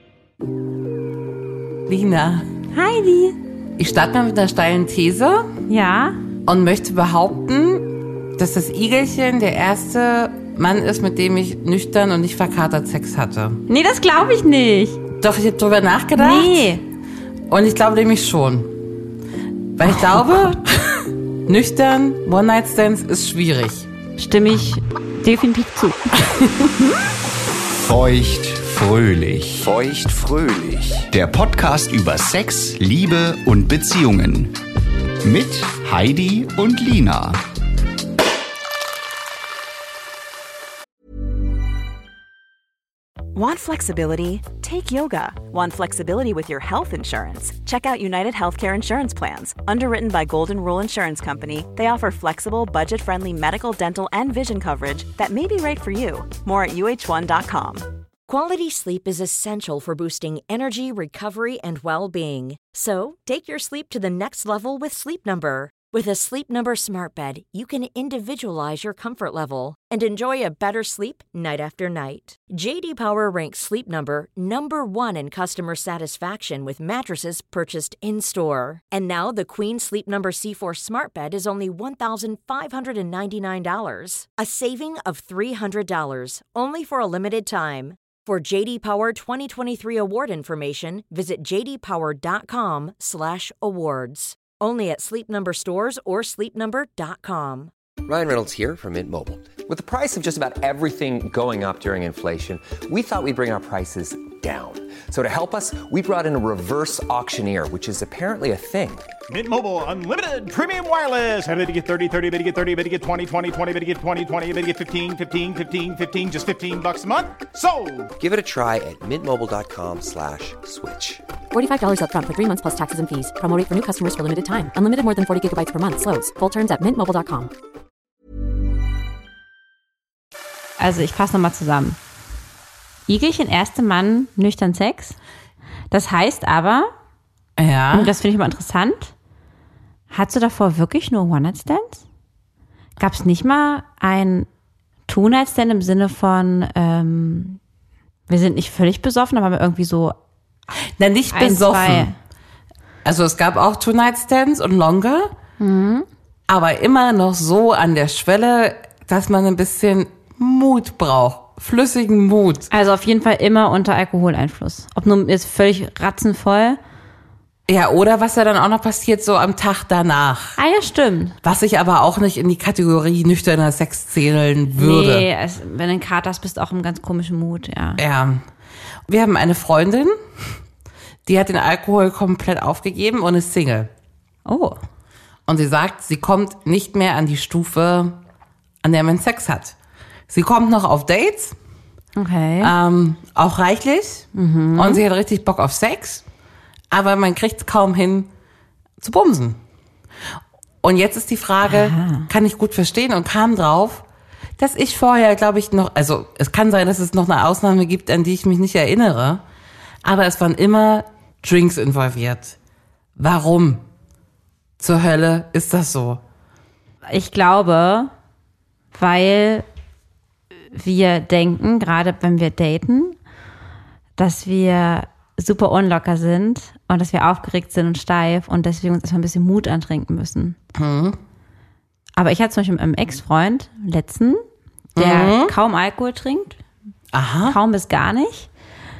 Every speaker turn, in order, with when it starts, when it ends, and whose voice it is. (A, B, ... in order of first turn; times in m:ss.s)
0:01.9-0:02.5 A
0:02.7-0:03.4 B
0:03.8-0:05.5 A
0:05.7-0:06.2 B
0:06.5-0:13.6 A
0:13.7-0:15.0 B
0:15.2-0:16.7 A
0:16.2-0:16.8 B
0:17.5-0:18.7 A
0:19.8-0:20.6 A
0:19.8-0:20.6 B
0:21.5-0:23.9 A
0:24.2-0:26.1 B
0:27.8-0:34.6 C
0:35.2-0:37.4 C
0:43.3-0:57.8 D
0:58.3-1:37.7 E
1:38.0-1:49.1 F
1:49.3-1:58.1 G
1:58.2-2:01.2 F
2:01.5-2:07.5 H
2:10.8-2:12.0 B
2:13.1-2:15.2 B
2:15.9-2:16.9 B
2:17.6-2:18.1 A
2:17.9-2:19.1 B
2:20.1-2:22.0 B
2:23.0-2:24.5 B
2:25.1-2:27.6 B
2:28.3-2:30.1 B
2:31.0-2:32.1 A
2:31.3-2:32.1 B
2:33.0-2:35.3 A
2:35.6-2:36.1 B
2:36.5-2:42.7 A
2:42.7-2:46.8 B
2:47.7-2:50.6 A
2:50.6-2:51.4 B
2:51.4-2:55.3 A
2:54.7-2:58.0 B
2:58.0-2:58.4 A
2:59.1-3:00.2 A
3:01.2-3:03.9 A
3:04.4-3:04.8 B
3:05.5-3:08.2 A
3:08.8-3:09.8 A
3:10.3-3:11.6 A
3:12.2-3:12.7 B
3:12.6-3:16.2 A
3:14.3-3:15.0 B
3:16.9-3:18.3 A
3:19.0-3:19.6 A
3:20.8-3:24.0 A
3:21.6-3:22.3 B
3:24.6-3:29.4 A
3:30.0-3:32.6 A
3:33.2-3:33.8 A
3:34.8-3:36.2 A
3:37.1-3:38.1 B
3:38.9-3:39.6 B
3:40.7-3:43.2 B
3:44.2-3:50.6 B
3:50.8-3:51.2 A
3:52.2-3:54.4 B
3:55.0-3:55.5 A
3:55.0-3:56.6 B
3:57.1-3:57.6 A
3:57.4-3:58.5 B